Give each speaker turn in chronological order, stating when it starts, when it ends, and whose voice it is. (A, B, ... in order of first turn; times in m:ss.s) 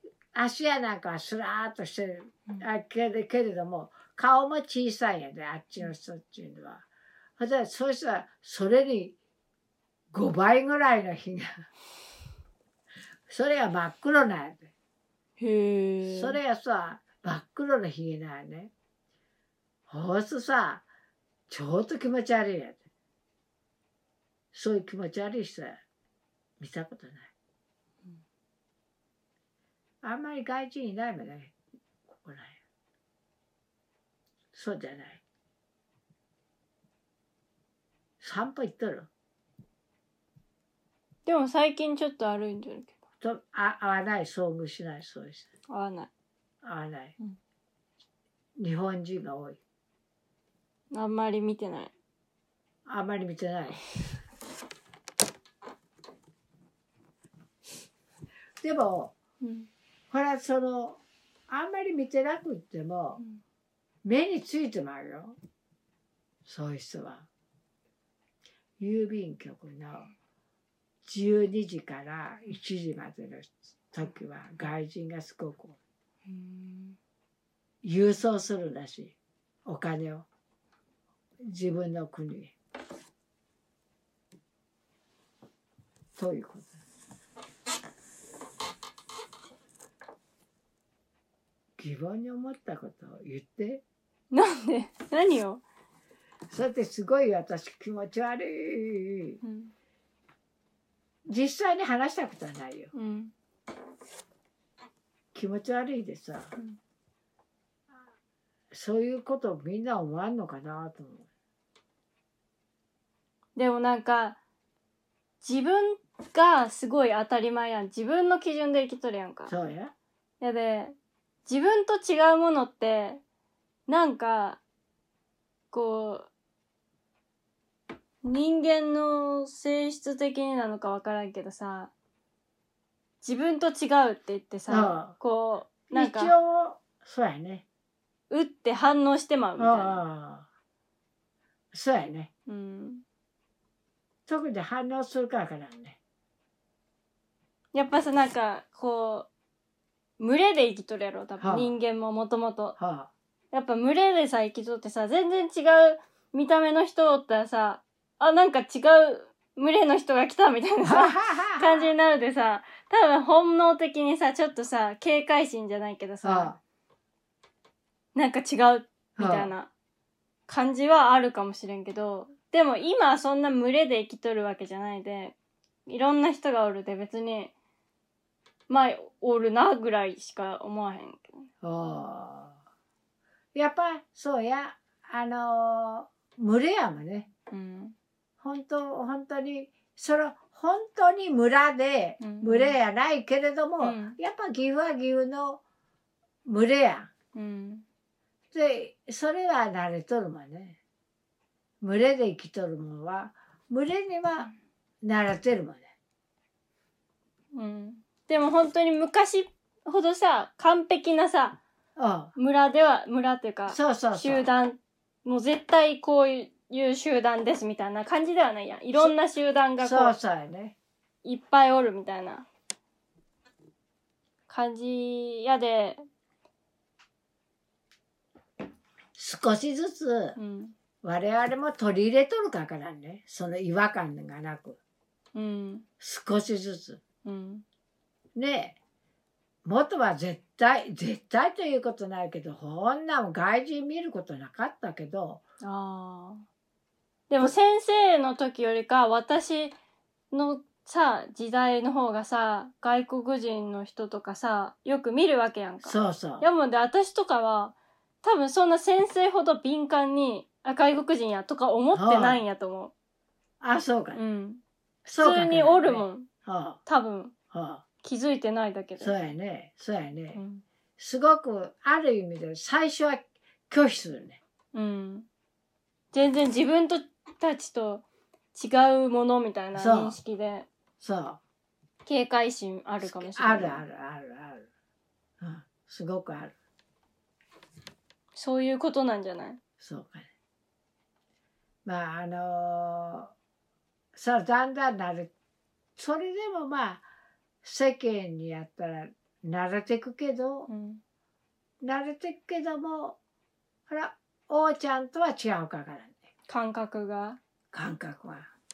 0:00.3-0:09.2 A
0:10.1-0:11.7 A
0:13.3-0:14.7 A
0:15.4-0:16.4 B
0:16.0-0:18.7 A
0:19.9-0:20.8 A
0:21.5-0:22.8 A
0:24.5-0:25.8 A
0:26.6-0:27.3 A
0:30.0-0:31.5 A
0:32.1-0:32.6 A
0:34.5-0:35.2 A
0:38.2-0:39.1 A
0:41.2-0:43.0 B
0:43.2-0:45.5 A
0:45.7-0:46.1 B
0:46.6-0:47.1 A
0:48.6-0:49.6 A
0:50.9-0:51.9 B
0:52.8-0:53.8 A
0:58.6-0:59.1 A
0:59.4-0:59.7 B
1:00.1-1:03.2 A
1:04.0-1:05.4 A
1:06.4-1:07.3 A
1:08.8-1:10.1 A
1:11.0-1:15.8 A
1:16.3-1:17.0 B
1:17.8-1:19.1 A
1:19.6-1:20.2 A
1:21.4-1:22.5 A
1:26.2-1:26.8 A
1:31.8-1:33.8 A
1:34.3-1:35.6 B
1:36.5-1:39.4 A
1:39.4-1:39.7 B
1:41.3-1:42.9 A
1:42.9-1:43.3 B
1:45.3-1:46.5 A
1:48.7-1:51.3 A
1:53.6-1:54.4 B
1:55.4-1:59.5 B
1:59.5-1:59.9 A
2:00.4-2:03.2 B
2:03.9-2:04.6 B
2:05.7-2:06.3 B
2:08.2-2:11.9 B
2:13.2-2:16.3 B
2:14.7-2:15.1 A
2:15.9-2:17.6 A
2:18.3-2:20.0 B
2:19.6-2:20.5 A
2:21.7-2:22.3 A
2:22.5-2:23.0 B
2:24.3-2:26.0 A
2:27.7-2:29.3 B
2:30.2-2:32.8 B
2:31.4-2:31.7 A
2:32.8-2:33.1 A
2:33.5-2:46.5 B
2:40.8-2:41.8 A
2:46.2-2:46.6 A
2:48.1-2:49.7 B
2:49.2-2:49.5 A
2:50.5-2:57.5 B
2:58.7-3:01.5 B
3:01.6-3:02.6 A
3:03.5-3:07.3 A
3:07.5-3:07.9 B
3:08.4-3:15.6 A
3:12.2-3:12.8 B
3:13.8-3:14.2 B
3:16.4-3:17.1 A
3:17.3-3:17.8 B
3:18.5-3:20.8 A
3:21.8-3:25.9 A
3:27.5-3:31.6 B
3:32.0-3:32.3 A
3:32.4-3:40.1 B
3:33.7-3:34.4 A
3:39.8-3:40.8 A
3:41.2-3:42.4 B
3:44.5-3:46.0 B
3:49.2-3:50.4 A
3:50.4-3:50.7 B
3:51.0-3:54.8 A
3:55.3-3:55.8 B
3:56.0-3:57.0 A
3:57.2-3:57.6 B
3:58.4-3:58.8 A
3:59.6-4:05.4 A
4:05.6-4:06.4 B
4:07.3-4:09.8 B
4:10.3-4:22.9 B
4:15.8-4:16.5 A
4:21.9-4:22.4 A
4:23.6-4:24.2 A
4:24.1-4:26.3 B
4:25.1-4:26.8 A
4:26.8-4:27.3 B
4:27.5-4:27.8 A
4:28.0-4:29.1 B
4:29.0-4:30.4 A
4:30.3-4:30.6 B
4:31.0-4:34.4 A
4:34.7-4:35.3 B
4:36.1-4:40.7 B
4:39.7-4:40.2 A
4:41.0-4:41.4 A
4:42.0-4:43.8 B
4:43.0-4:44.7 A
4:45.4-4:46.5 A
4:48.3-4:49.6 B
4:49.8-4:50.3 A
4:51.8-4:53.3 A
4:54.1-4:55.3 A
4:56.0-4:57.0 A
4:57.6-5:00.7 A
5:00.7-5:01.0 B
5:01.8-5:03.2 A
5:03.9-5:06.3 A
5:06.5-5:07.4 B
5:07.7-5:08.5 A